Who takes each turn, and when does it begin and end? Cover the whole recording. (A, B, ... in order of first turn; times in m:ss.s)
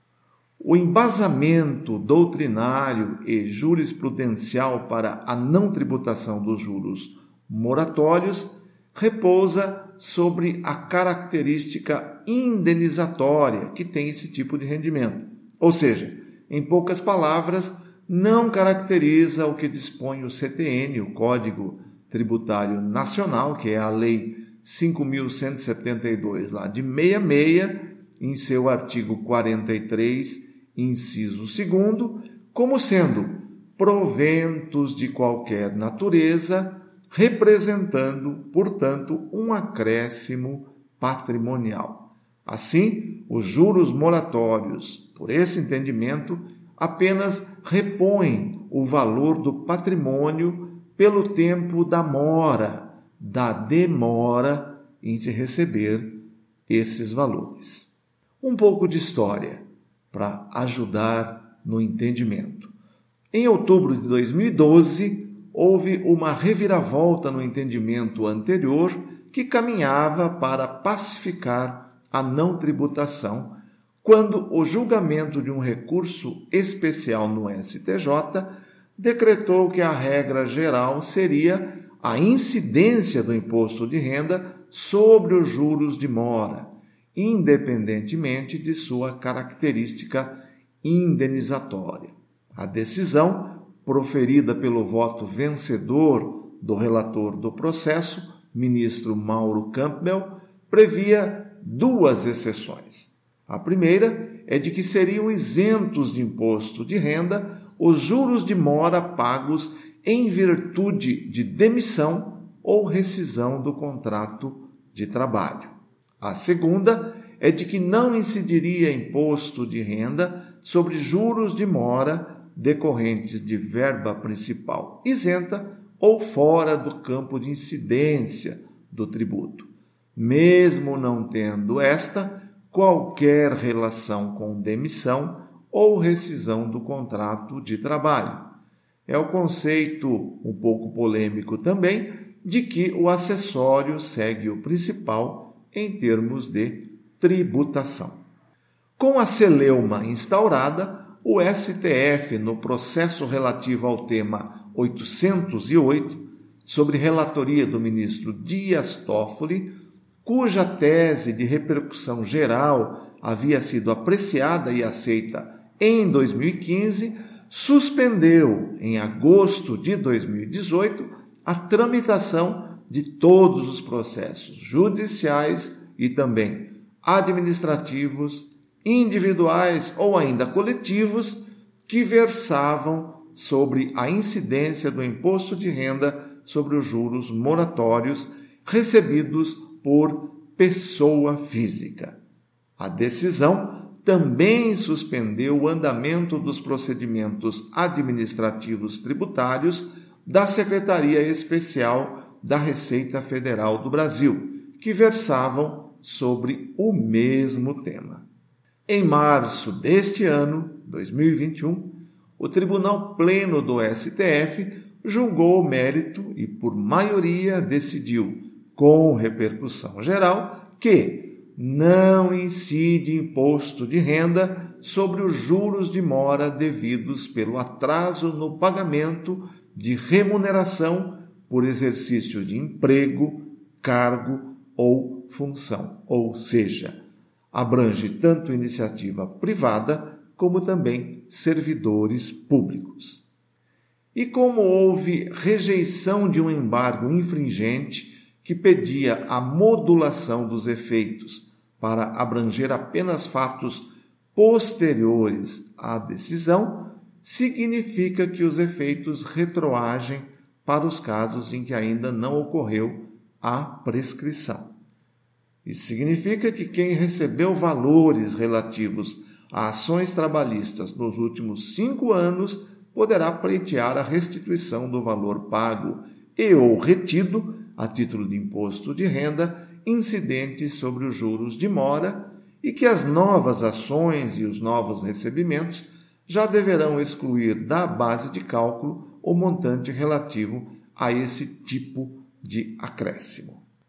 0:00.6-0:57.9 A
0:58.4-1:02.7 A
1:03.3-2:18.5 A
2:19.1-2:28.2 A
2:29.0-2:39.7 A
2:40.2-3:12.2 A
3:12.8-3:28.2 A
3:28.9-3:57.0 A
3:57.5-4:03.2 A
4:04.1-4:24.7 A
4:25.6-4:53.6 A